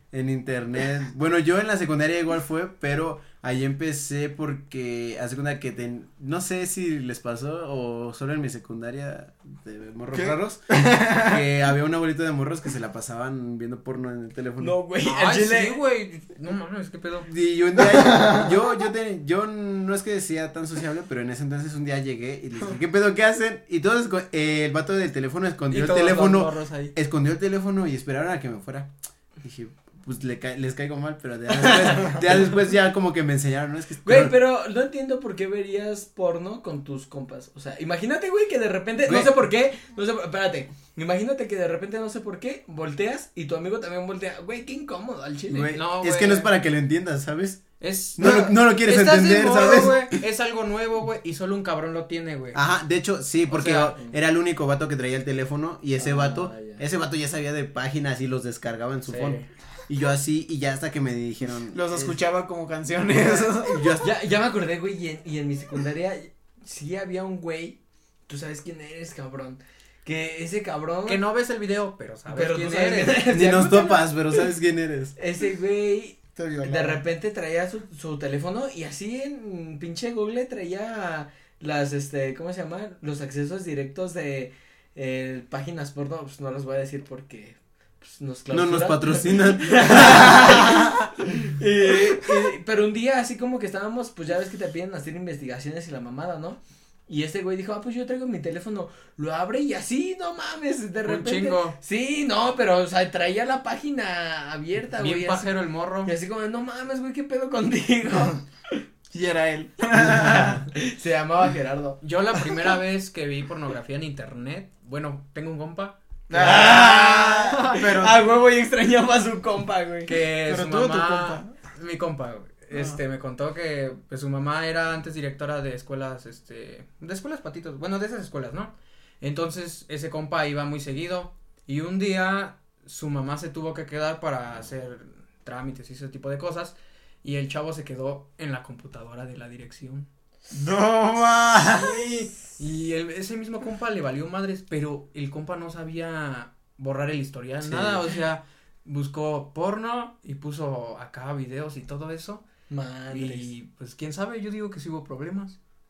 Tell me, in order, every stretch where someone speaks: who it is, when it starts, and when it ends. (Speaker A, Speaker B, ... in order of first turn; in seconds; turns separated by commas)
Speaker A: 0.1-14.8, Speaker B: 10.1-11.4, Speaker C: 14.6-15.8, Speaker D: 15.0-17.3, Speaker A: 17.3-34.3, Speaker B: 17.8-18.5, Speaker D: 25.7-26.9, Speaker C: 31.6-32.2, Speaker C: 34.0-45.8, Speaker A: 39.0-39.4, Speaker A: 45.5-50.2, Speaker D: 45.7-46.5, Speaker D: 47.8-52.6, Speaker A: 52.5-62.2, Speaker D: 53.5-54.0, Speaker C: 56.0-56.8, Speaker D: 59.1-59.5, Speaker B: 61.7-63.9, Speaker A: 63.4-64.1, Speaker C: 64.0-71.2, Speaker D: 71.1-73.3, Speaker C: 72.3-74.4, Speaker A: 73.3-75.2, Speaker C: 75.2-105.5, Speaker B: 76.4-77.0, Speaker A: 88.5-91.1, Speaker D: 101.0-101.8, Speaker D: 105.0-106.1, Speaker C: 106.0-108.8, Speaker B: 109.1-110.7, Speaker C: 110.7-112.0, Speaker D: 112.0-116.0, Speaker B: 116.3-118.2, Speaker C: 116.3-120.1, Speaker D: 120.1-140.1, Speaker B: 120.5-121.5, Speaker B: 122.7-123.0, Speaker B: 140.5-142.0, Speaker D: 141.7-152.4, Speaker A: 147.6-148.1, Speaker C: 152.7-153.5, Speaker D: 153.1-155.6